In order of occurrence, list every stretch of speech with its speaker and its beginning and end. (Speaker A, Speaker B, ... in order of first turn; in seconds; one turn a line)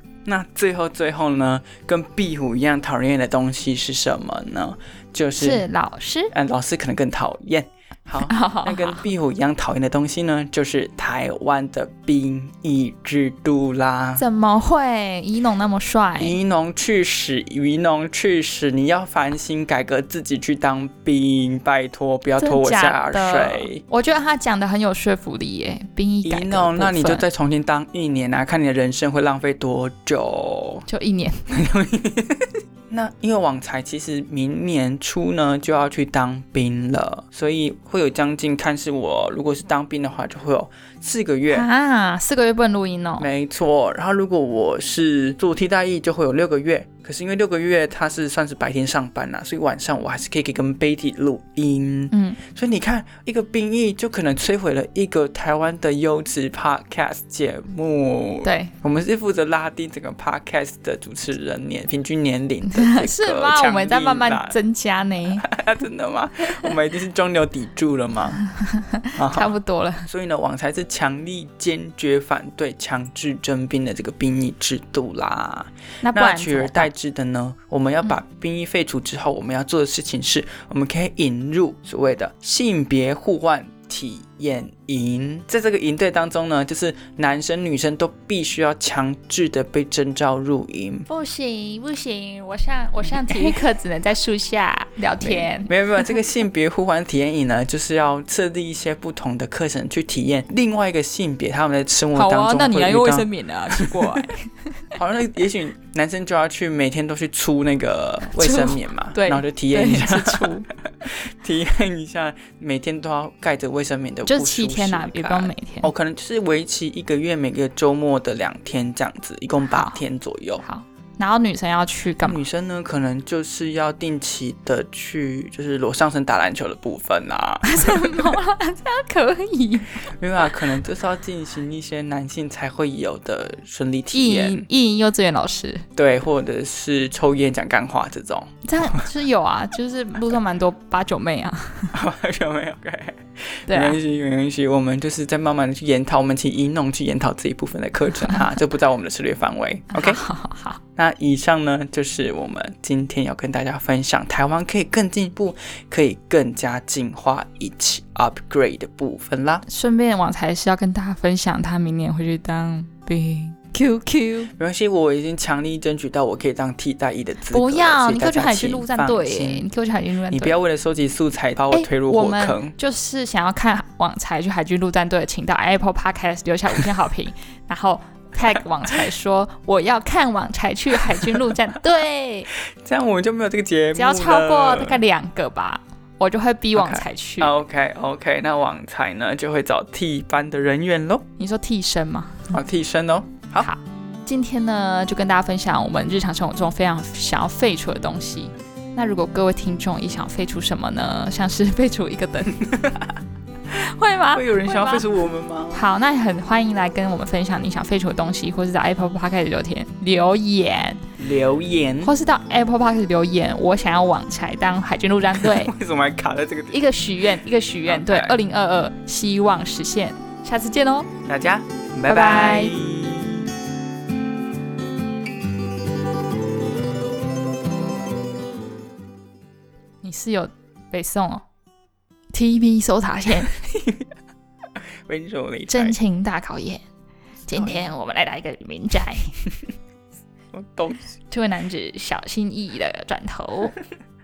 Speaker A: 0.2-5.7
Speaker B: 5.4-6.3
Speaker A: 6.3-14.2
Speaker B: 8.2-9.0
Speaker B: 14.2-16.4
Speaker A: 16.2-23.8
Speaker B: 22.4-27.2
Speaker A: 26.2-30.9
Speaker B: 30.9-31.4
Speaker A: 31.5-41.7
Speaker B: 41.5-43.3
Speaker A: 43.2-64.6
Speaker B: 52.1-52.4
Speaker B: 58.4-58.7
Speaker B: 62.7-65.5
Speaker A: 65.4-68.4
Speaker B: 68.6-70.1
Speaker A: 69.2-69.5
Speaker A: 70.0-91.1
Speaker B: 76.0-76.9
Speaker B: 91.1-95.7
Speaker A: 95.2-104.3
Speaker B: 102.1-104.5
Speaker A: 105.0-110.5
Speaker B: 108.4-110.7
Speaker A: 111.0-120.6
Speaker B: 114.3-115.9
Speaker B: 119.7-120.0
Speaker B: 120.6-122.4
Speaker A: 122.2-128.4
Speaker B: 127.6-130.1
Speaker A: 130.1-134.7
Speaker B: 134.1-135.9
Speaker A: 136.0-139.1
Speaker B: 138.7-142.0
Speaker A: 141.9-150.2
Speaker B: 143.7-144.0
Speaker B: 149.9-150.8
Speaker A: 151.0-159.7
Speaker B: 159.7-164.5
Speaker A: 164.6-169.7
Speaker B: 167.5-170.5
Speaker A: 170.3-172.7
Speaker B: 171.7-182.5
Speaker A: 182.7-185.0
Speaker B: 183.9-187.5
Speaker A: 186.8-191.2
Speaker B: 191.4-192.5
Speaker A: 192.5-193.7
Speaker B: 193.6-202.7
Speaker A: 202.7-203.0
Speaker B: 203.7-205.1
Speaker A: 204.3-205.8
Speaker B: 205.7-211.0
Speaker A: 211.2-212.2
Speaker B: 212.0-215.7
Speaker A: 215.4-216.9
Speaker B: 216.7-221.1
Speaker A: 217.9-218.4
Speaker A: 221.3-223.5
Speaker B: 222.1-222.8
Speaker B: 230.0-231.4
Speaker B: 232.3-233.5
Speaker A: 233.6-234.1
Speaker A: 235.1-236.0
Speaker B: 235.7-236.8
Speaker B: 237.5-239.4
Speaker A: 237.5-237.8
Speaker A: 240.5-241.1
Speaker B: 241.3-243.8